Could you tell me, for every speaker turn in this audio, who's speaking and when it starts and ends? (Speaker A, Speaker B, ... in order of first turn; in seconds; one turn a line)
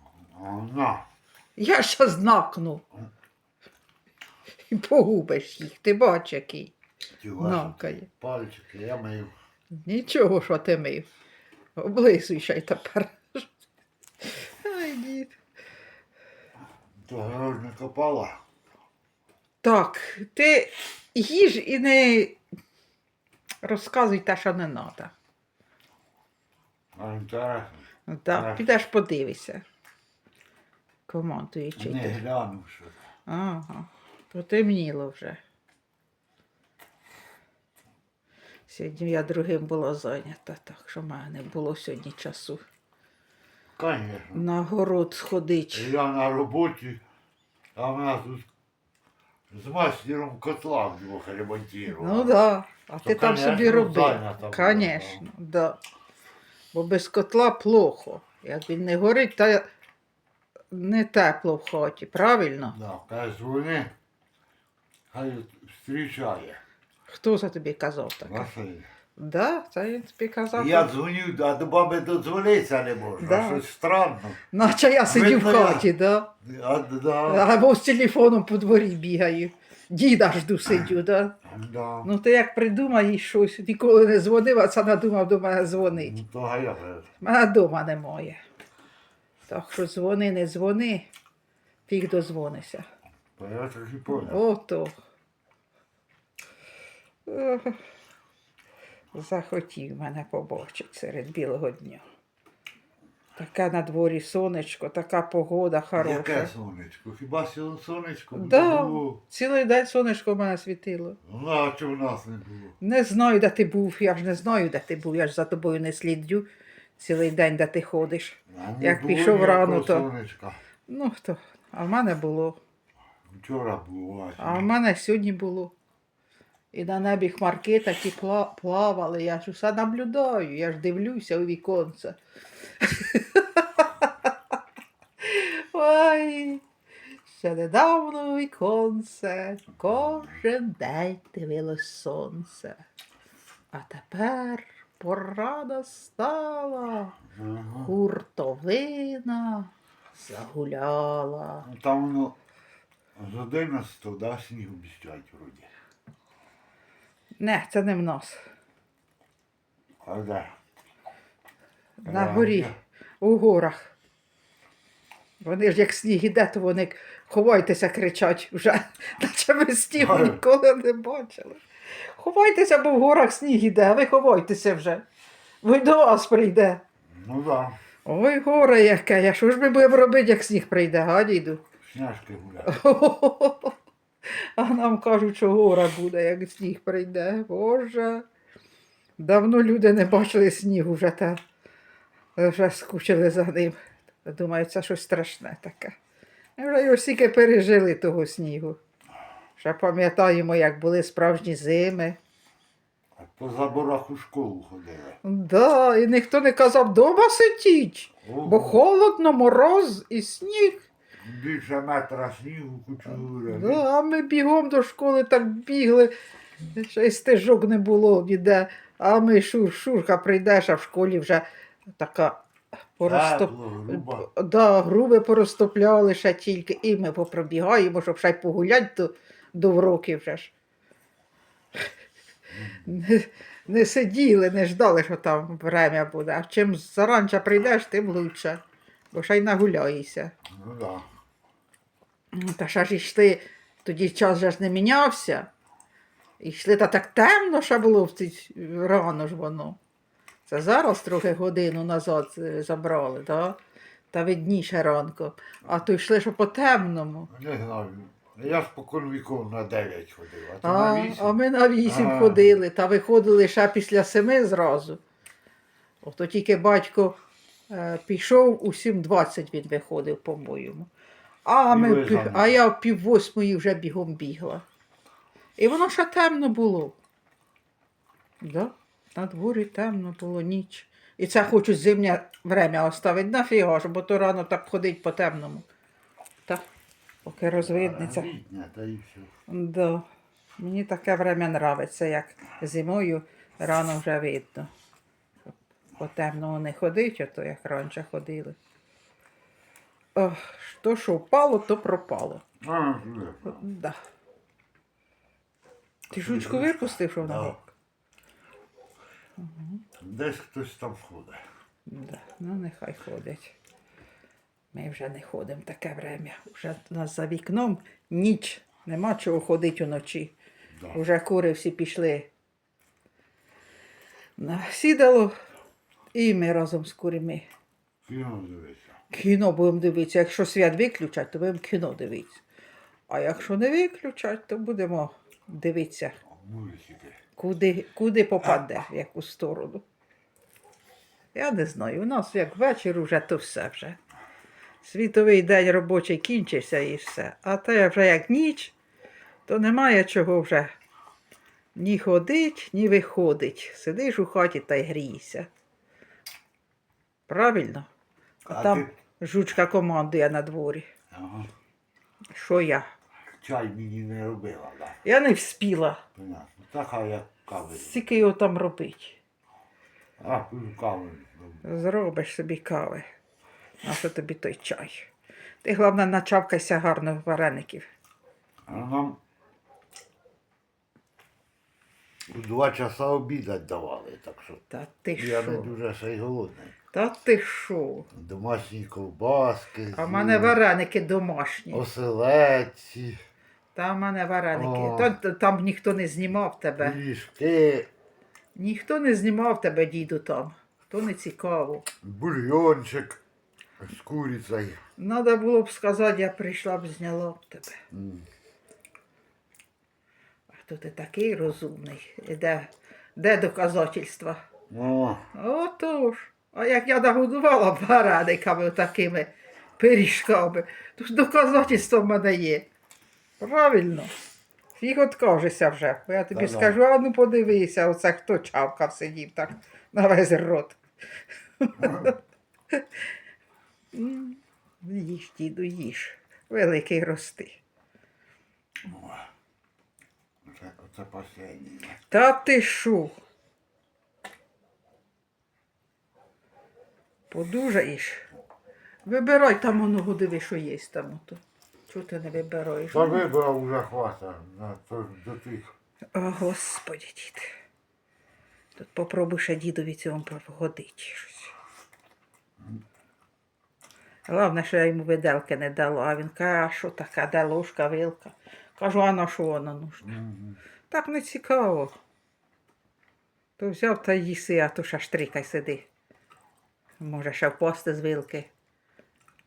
Speaker A: 0.3-1.1
Speaker B: 1.6-2.8
Speaker B: 4.7-6.7
Speaker A: 7.2-9.3
Speaker B: 7.4-8.1
Speaker B: 9.7-11.1
Speaker B: 11.8-13.5
Speaker B: 14.2-15.3
Speaker A: 17.0-18.4
Speaker B: 19.6-22.4
Speaker B: 23.6-25.1
Speaker A: 26.9-28.7
Speaker B: 28.1-29.6
Speaker B: 31.1-32.2
Speaker A: 31.8-33.1
Speaker B: 33.3-35.4
Speaker B: 38.7-42.6
Speaker A: 43.8-44.5
Speaker B: 44.3-45.9
Speaker A: 45.7-47.0
Speaker A: 47.8-48.5
Speaker A: 49.5-52.4
Speaker B: 51.9-55.8
Speaker A: 53.0-55.2
Speaker B: 56.7-59.7
Speaker B: 60.7-62.8
Speaker A: 62.7-63.9
Speaker A: 65.1-66.6
Speaker B: 67.1-68.5
Speaker A: 68.2-68.9
Speaker B: 69.2-70.9
Speaker A: 70.5-74.4
Speaker B: 73.2-73.6
Speaker B: 74.5-76.3
Speaker A: 75.1-75.9
Speaker A: 76.4-77.5
Speaker B: 77.3-81.4
Speaker A: 81.4-82.1
Speaker B: 82.0-86.1
Speaker A: 85.9-87.1
Speaker B: 87.2-88.4
Speaker B: 89.5-91.1
Speaker B: 91.9-92.9
Speaker A: 93.4-94.4
Speaker B: 94.1-94.9
Speaker B: 97.3-97.8
Speaker B: 99.1-102.0
Speaker B: 103.4-106.5
Speaker A: 106.0-109.2
Speaker B: 108.3-111.2
Speaker A: 111.2-112.8
Speaker B: 112.8-116.5
Speaker B: 117.0-120.1
Speaker A: 118.5-120.6
Speaker B: 120.9-122.6
Speaker A: 123.3-124.7
Speaker B: 124.4-125.7
Speaker B: 126.7-132.2
Speaker B: 132.8-134.3
Speaker B: 135.2-136.6
Speaker B: 137.3-142.8
Speaker A: 139.9-140.4
Speaker B: 143.7-147.2
Speaker A: 147.3-147.9
Speaker B: 147.8-151.7
Speaker A: 151.6-152.3
Speaker A: 153.2-155.7
Speaker B: 157.4-158.4
Speaker A: 160.0-160.5
Speaker B: 162.0-163.9
Speaker A: 162.0-162.8
Speaker B: 165.4-175.0
Speaker A: 170.0-170.4
Speaker B: 175.6-176.8
Speaker A: 177.1-177.8
Speaker B: 178.1-181.6
Speaker A: 181.8-182.8
Speaker B: 182.7-183.8
Speaker B: 184.3-188.3
Speaker B: 189.2-191.4
Speaker B: 192.3-196.0
Speaker B: 196.6-198.8
Speaker B: 199.6-202.2
Speaker A: 203.2-205.2
Speaker B: 205.2-210.8
Speaker A: 208.2-208.8
Speaker A: 211.2-213.8
Speaker B: 213.1-216.1
Speaker B: 216.7-222.4
Speaker B: 223.0-230.5
Speaker A: 223.0-224.3
Speaker A: 232.5-233.0
Speaker B: 232.8-238.6
Speaker B: 239.1-240.3
Speaker A: 240.4-241.1
Speaker B: 242.3-245.5
Speaker B: 246.4-249.8
Speaker B: 250.5-253.6
Speaker B: 254.1-257.3
Speaker A: 257.3-262.6
Speaker B: 260.6-265.0
Speaker B: 266.0-267.2
Speaker B: 267.7-270.9
Speaker B: 271.4-274.6
Speaker A: 271.7-272.6
Speaker B: 275.6-277.0
Speaker B: 278.4-285.6
Speaker B: 287.2-288.3
Speaker A: 287.4-289.3
Speaker B: 289.5-290.1
Speaker B: 290.6-294.7
Speaker B: 295.5-298.6
Speaker B: 300.1-302.4
Speaker A: 302.6-303.6
Speaker B: 303.5-304.0
Speaker A: 306.1-307.6
Speaker B: 306.1-307.7
Speaker B: 309.4-309.8
Speaker A: 310.0-311.4
Speaker B: 311.9-313.6
Speaker B: 314.7-320.4
Speaker B: 320.9-322.3
Speaker B: 324.4-325.3
Speaker B: 326.1-327.5
Speaker A: 328.0-328.9
Speaker B: 329.1-332.4
Speaker B: 333.1-336.2
Speaker A: 336.3-337.2
Speaker B: 337.4-339.8
Speaker B: 341.3-344.0
Speaker B: 344.8-348.8
Speaker B: 349.5-350.7
Speaker B: 351.8-355.5
Speaker B: 357.3-357.9
Speaker A: 358.5-358.9
Speaker B: 358.5-360.9
Speaker A: 361.1-361.5
Speaker B: 362.3-362.9
Speaker A: 363.4-365.0
Speaker B: 365.0-366.0
Speaker A: 366.2-368.1
Speaker B: 367.7-369.2
Speaker A: 370.2-371.6
Speaker B: 371.6-373.1
Speaker B: 373.8-375.1
Speaker B: 375.6-377.9
Speaker A: 378.7-379.2
Speaker A: 382.3-384.6
Speaker B: 384.7-385.7
Speaker A: 385.2-386.7
Speaker B: 386.9-388.1
Speaker A: 388.1-390.6
Speaker B: 389.9-391.8
Speaker A: 391.7-393.2
Speaker B: 393.8-397.0
Speaker A: 394.5-395.1
Speaker A: 396.8-397.9
Speaker B: 398.6-401.9
Speaker A: 402.0-403.2
Speaker A: 403.8-404.8
Speaker B: 405.0-407.8
Speaker A: 407.9-408.3
Speaker B: 410.5-414.4
Speaker A: 414.7-415.2
Speaker B: 415.4-422.7
Speaker B: 423.4-424.1
Speaker B: 424.8-430.8
Speaker A: 426.3-426.8
Speaker B: 431.6-432.1
Speaker A: 431.8-432.1
Speaker B: 433.9-437.6
Speaker A: 438.8-439.3
Speaker A: 440.4-442.0
Speaker B: 442.1-443.2
Speaker B: 447.3-448.2
Speaker B: 449.1-453.2
Speaker A: 452.9-455.7
Speaker B: 456.1-457.5
Speaker B: 458.8-461.5
Speaker B: 464.2-470.2
Speaker A: 470.0-470.6
Speaker B: 470.9-471.9
Speaker B: 473.6-475.9
Speaker B: 477.0-478.5